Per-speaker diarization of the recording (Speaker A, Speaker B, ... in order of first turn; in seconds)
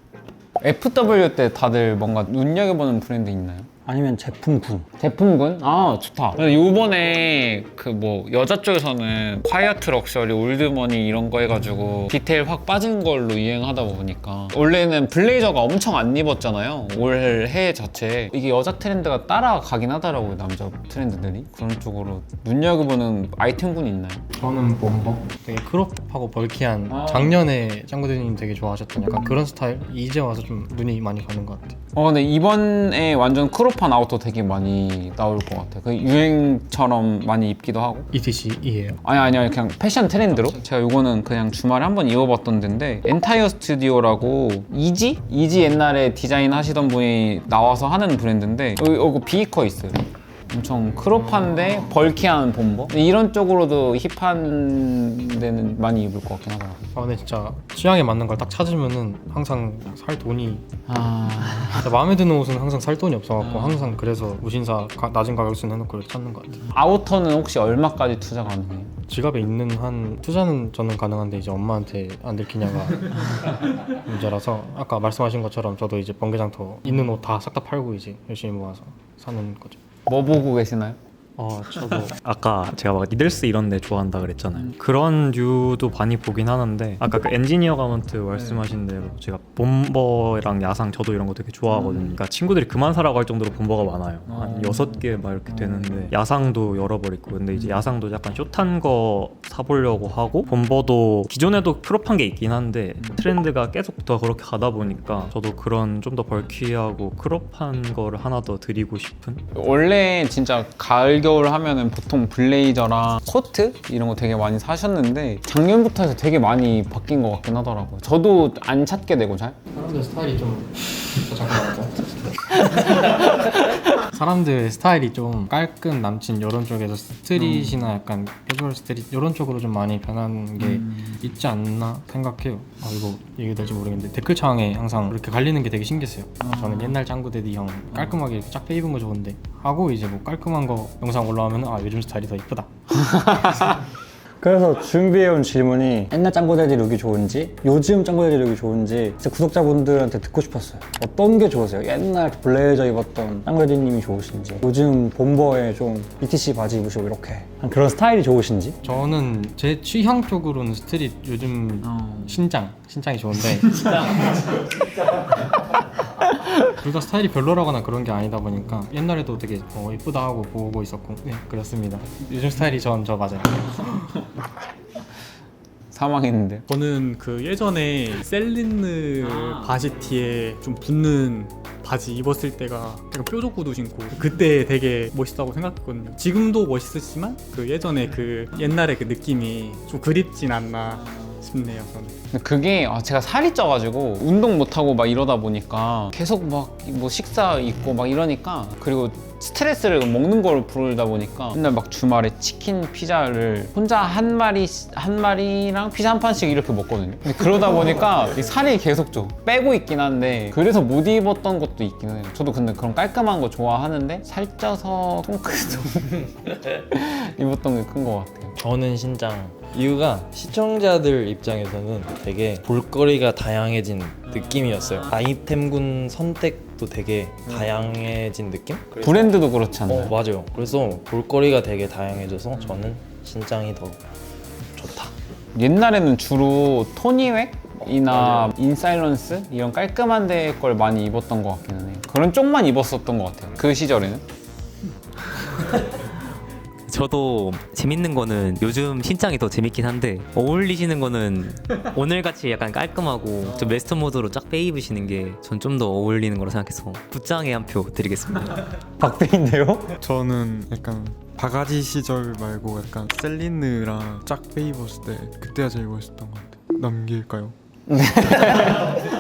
Speaker A: 0.6-3.7, 5.0-24.2, 26.9-27.4, 31.9-38.1, 39.0-56.8, 60.9-61.9, 63.4-63.8, 66.7-68.9, 80.1-81.0, 109.5-119.5, 175.9-176.6, 192.3-218.6, 229.0-230.2, 235.5-244.2, 267.9-269.1
Speaker B: 3.9-4.9, 144.4-158.8, 259.0-259.9
Speaker C: 24.4-31.8, 38.1-39.0, 56.9-60.6, 61.7-66.6, 69.1-73.1, 73.9-79.8, 119.7-122.1, 124.1-142.7, 158.8-164.3, 166.8-174.2
Speaker D: 81.4-109.4
Speaker E: 176.7-192.1
Speaker F: 218.6-234.0, 234.8-235.1, 238.1-238.5
Speaker G: 246.8-258.6
Speaker H: 260.0-267.5